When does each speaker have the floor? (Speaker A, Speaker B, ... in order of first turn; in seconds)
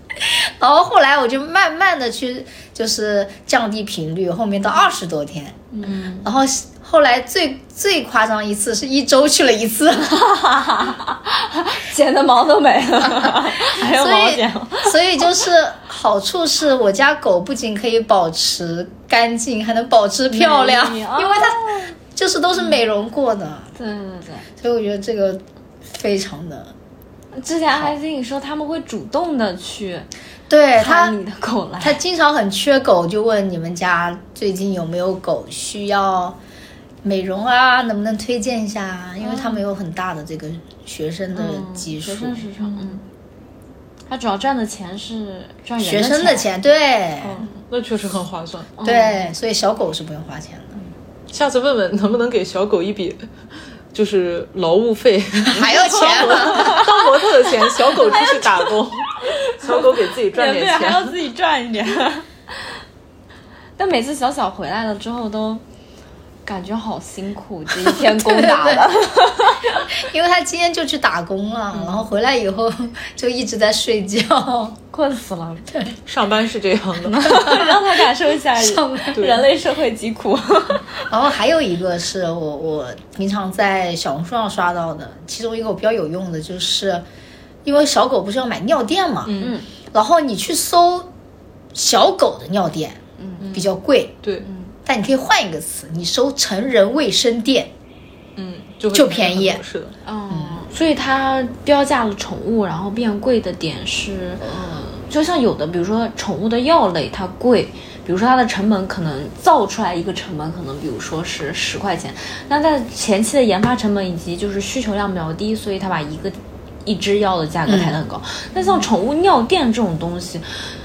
Speaker A: 0.1-5.7, 6.2-10.2, 13.1-23.7, 24.6-26.7, 30.5-31.2, 31.8-36.4, 37.0-42.5, 45.8-47.4, 48.8-50.8, 55.5-56.8, 67.8-69.0, 69.9-74.8, 77.5-77.8, 78.6-79.2, 81.1-87.0, 87.7-89.3, 89.9-91.1, 91.7-93.0, 93.5-94.2, 94.9-97.7, 98.9-99.6, 100.3-100.6, 117.7-118.0
Speaker B: 5.7-6.0, 10.1-15.3, 20.3-21.9, 22.6-22.9, 23.8-24.5, 27.3-30.1, 30.8-32.0, 39.2-39.6, 41.3-43.0, 44.1-46.5, 47.2-47.5, 48.8-49.3, 55.6-58.7, 59.2-62.7, 63.8-65.6, 66.5-69.9, 74.9-75.7, 77.0-81.1, 89.4-89.7, 93.2-93.5, 94.4-94.7, 100.0-120.7
Speaker C: 5.8-6.2, 42.6-43.0, 47.4-48.7, 51.3-53.2, 53.9-61.2, 76.1-77.7, 79.1-79.5, 89.3-89.6, 93.4-93.7, 98.4-100.0